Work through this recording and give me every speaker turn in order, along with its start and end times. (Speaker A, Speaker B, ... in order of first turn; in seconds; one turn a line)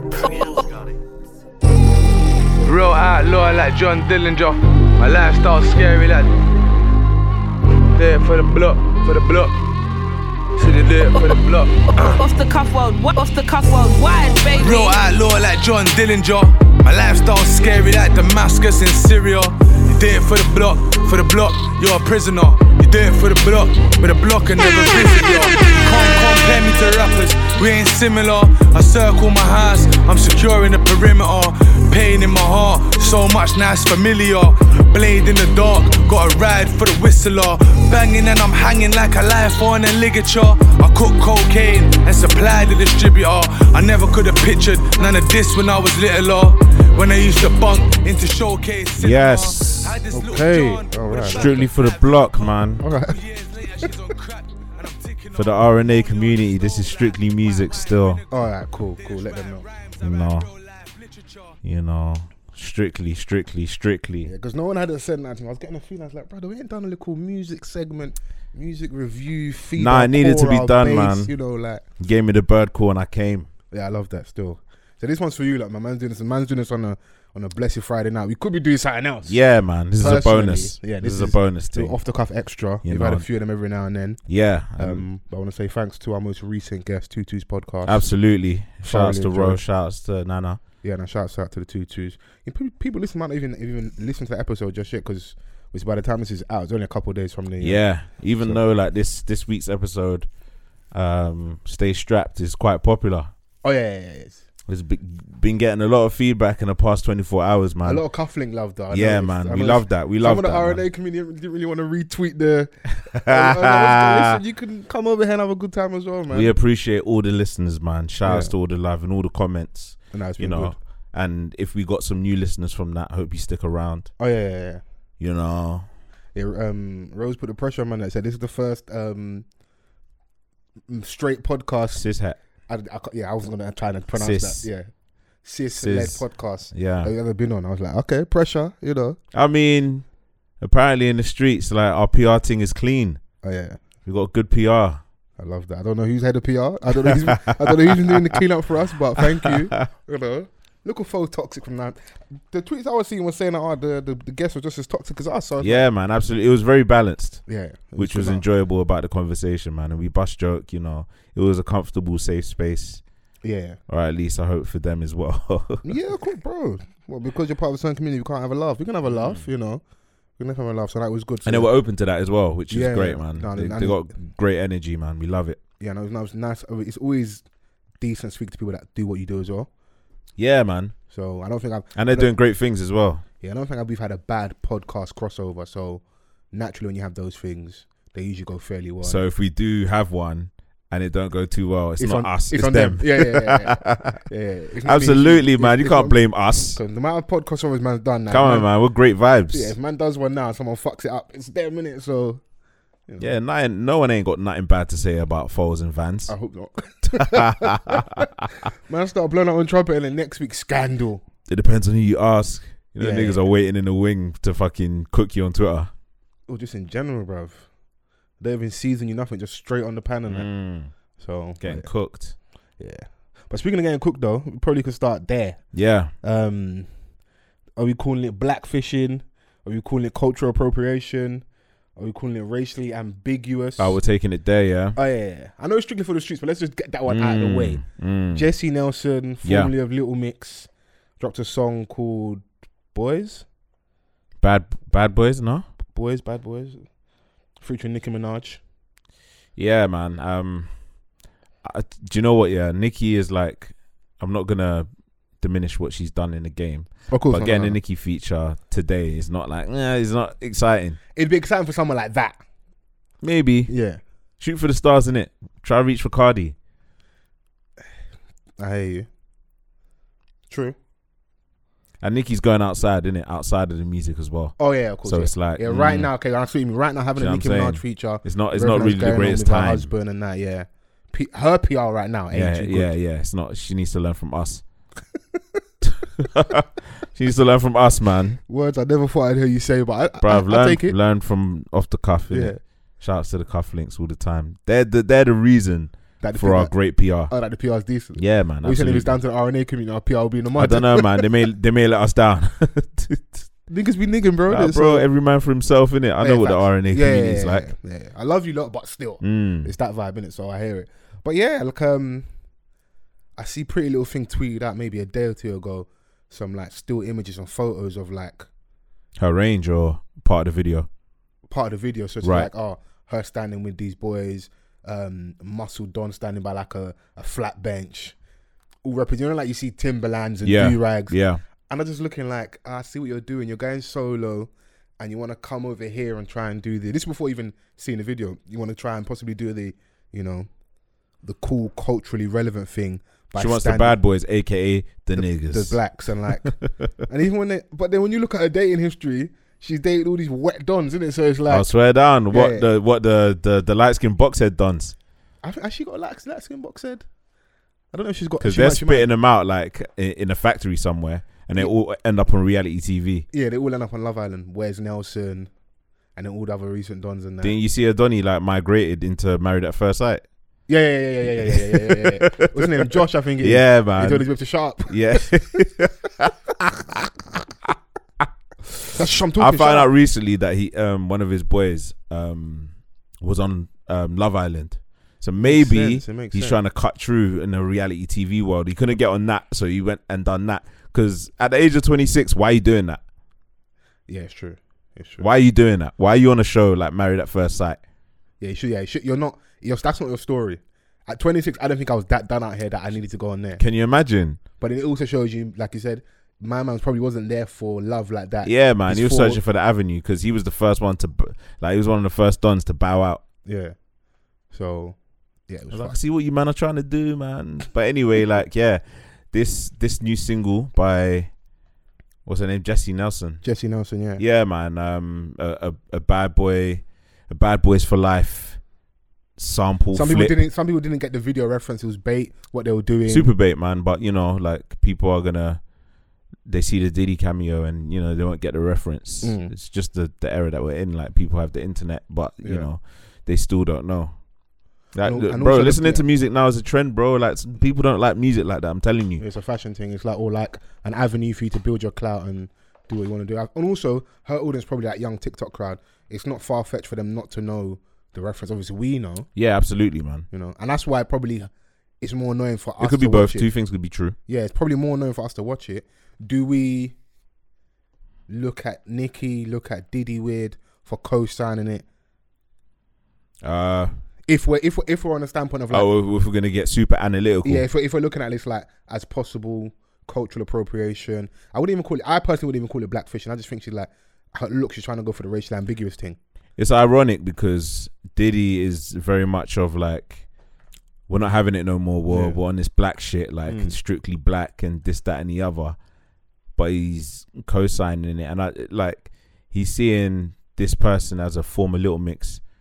Speaker A: 0.2-0.8
Speaker A: 2.6-6.3
Speaker A: 7.9-9.6
Speaker A: 10.6-12.2
Speaker B: 11.9-15.0
Speaker A: 14.6-61.6
Speaker C: 49.0-50.0
Speaker D: 50.1-51.5
Speaker C: 51.2-52.8
Speaker D: 52.8-53.1
Speaker C: 55.3-58.2
Speaker D: 58.3-59.6
Speaker C: 60.0-60.5
Speaker C: 61.6-64.3
Speaker D: 64.2-71.8
Speaker C: 69.8-71.3
Speaker C: 72.0-73.5
Speaker D: 73.7-79.3
Speaker C: 79.2-82.0
Speaker D: 80.0-84.2
Speaker C: 82.8-83.2
Speaker C: 84.2-85.1
Speaker D: 84.8-88.0
Speaker C: 87.8-90.6
Speaker D: 88.8-89.6
Speaker D: 90.8-97.8
Speaker C: 97.6-100.3
Speaker C: 100.9-103.3
Speaker D: 103.6-104.4
Speaker C: 104.7-108.0
Speaker D: 107.8-116.5
Speaker C: 108.9-110.8
Speaker C: 113.0-114.4
Speaker C: 116.3-124.1
Speaker D: 118.2-118.5
Speaker D: 120.1-120.8
Speaker D: 124.2-124.8
Speaker C: 125.2-125.9
Speaker D: 126.3-129.4
Speaker D: 130.9-132.0
Speaker C: 131.9-132.4
Speaker D: 132.7-134.9
Speaker C: 134.2-134.7
Speaker D: 135.4-139.2
Speaker C: 135.8-137.1
Speaker C: 139.3-140.0
Speaker C: 140.6-143.2
Speaker D: 143.4-143.8
Speaker C: 144.1-145.0
Speaker D: 145.4-152.0
Speaker C: 147.1-148.3
Speaker D: 152.5-155.9
Speaker C: 155.6-163.0
Speaker D: 157.5-158.4
Speaker D: 163.4-163.8
Speaker C: 163.9-165.9
Speaker D: 165.8-169.8
Speaker C: 169.1-169.4
Speaker D: 170.4-171.7
Speaker C: 171.4-175.6
Speaker D: 172.7-174.1
Speaker D: 175.8-177.4
Speaker D: 178.0-179.7
Speaker C: 180.4-180.9
Speaker D: 181.1-182.3
Speaker C: 181.9-183.2
Speaker D: 183.4-189.2
Speaker C: 189.0-194.2
Speaker D: 192.0-196.2
Speaker C: 194.8-196.8
Speaker D: 196.7-198.7
Speaker C: 198.3-199.7
Speaker D: 199.5-202.4
Speaker C: 203.2-206.3
Speaker D: 206.3-208.3
Speaker C: 207.1-208.3
Speaker D: 208.9-211.2
Speaker C: 211.5-215.9
Speaker D: 213.0-213.5
Speaker D: 216.5-217.7
Speaker D: 218.4-220.5
Speaker C: 220.3-220.9
Speaker D: 221.2-221.9
Speaker C: 221.6-222.3
Speaker D: 222.8-225.6
Speaker C: 225.7-226.1
Speaker D: 226.2-226.9
Speaker D: 227.8-231.4
Speaker D: 232.0-234.0
Speaker C: 233.8-235.0
Speaker D: 234.9-240.7
Speaker C: 237.1-238.4
Speaker C: 239.4-239.7
Speaker D: 241.2-243.4
Speaker C: 244.4-245.7
Speaker D: 245.9-246.9
Speaker D: 247.6-248.6
Speaker C: 249.6-250.7
Speaker C: 251.6-254.9
Speaker C: 255.4-261.0
Speaker D: 257.1-257.8
Speaker D: 261.1-262.4
Speaker C: 263.2-263.7
Speaker D: 263.7-264.0
Speaker C: 264.4-266.6
Speaker D: 268.6-269.1
Speaker D: 270.5-270.8
Speaker C: 272.0-276.1
Speaker D: 274.6-282.9
Speaker C: 277.2-279.9
Speaker C: 282.3-284.6
Speaker C: 285.8-288.4
Speaker D: 288.5-290.9
Speaker C: 290.2-297.3
Speaker D: 292.3-292.6
Speaker D: 296.2-301.2
Speaker C: 298.1-299.1
Speaker C: 300.6-303.5
Speaker D: 303.7-305.1
Speaker C: 304.5-307.7
Speaker D: 306.2-312.3
Speaker C: 309.2-309.7
Speaker D: 313.4-318.5
Speaker C: 319.2-320.9
Speaker D: 321.5-328.1
Speaker C: 322.2-322.5
Speaker D: 328.8-331.2
Speaker C: 330.4-331.4
Speaker D: 331.7-340.5
Speaker D: 341.2-344.0
Speaker C: 343.3-346.9
Speaker D: 345.1-351.7
Speaker C: 351.5-354.9
Speaker D: 352.3-352.7
Speaker D: 355.4-357.0
Speaker D: 357.9-359.1
Speaker C: 358.4-363.2
Speaker D: 363.3-365.5
Speaker D: 366.1-367.6
Speaker C: 367.4-370.2
Speaker D: 370.7-375.4
Speaker C: 371.4-374.3
Speaker C: 374.9-377.1
Speaker C: 377.6-378.3
Speaker D: 378.9-379.9
Speaker C: 379.4-393.0
Speaker D: 385.4-386.6
Speaker D: 394.1-395.3
Speaker C: 395.2-397.8
Speaker D: 398.4-403.6
Speaker C: 403.6-404.4
Speaker D: 404.6-409.4
Speaker C: 408.4-413.2
Speaker D: 413.4-413.8
Speaker D: 414.5-416.0
Speaker C: 415.7-421.3
Speaker C: 422.2-423.4
Speaker D: 423.4-424.2
Speaker C: 424.1-428.6
Speaker C: 429.4-430.4
Speaker D: 429.9-433.3
Speaker C: 433.1-435.6
Speaker C: 436.4-444.2
Speaker D: 439.2-439.5
Speaker D: 442.4-442.7
Speaker C: 444.9-449.2
Speaker D: 445.0-446.0
Speaker D: 449.2-459.3
Speaker C: 459.3-460.3
Speaker D: 460.3-461.5
Speaker D: 462.0-463.5
Speaker C: 462.8-464.1
Speaker D: 464.2-466.9
Speaker D: 468.3-471.8
Speaker C: 473.4-474.0
Speaker D: 474.3-475.9
Speaker C: 475.7-477.6
Speaker D: 477.4-486.2
Speaker C: 486.6-490.2
Speaker C: 491.1-495.8
Speaker D: 492.1-492.4
Speaker D: 493.5-493.8
Speaker C: 496.6-502.4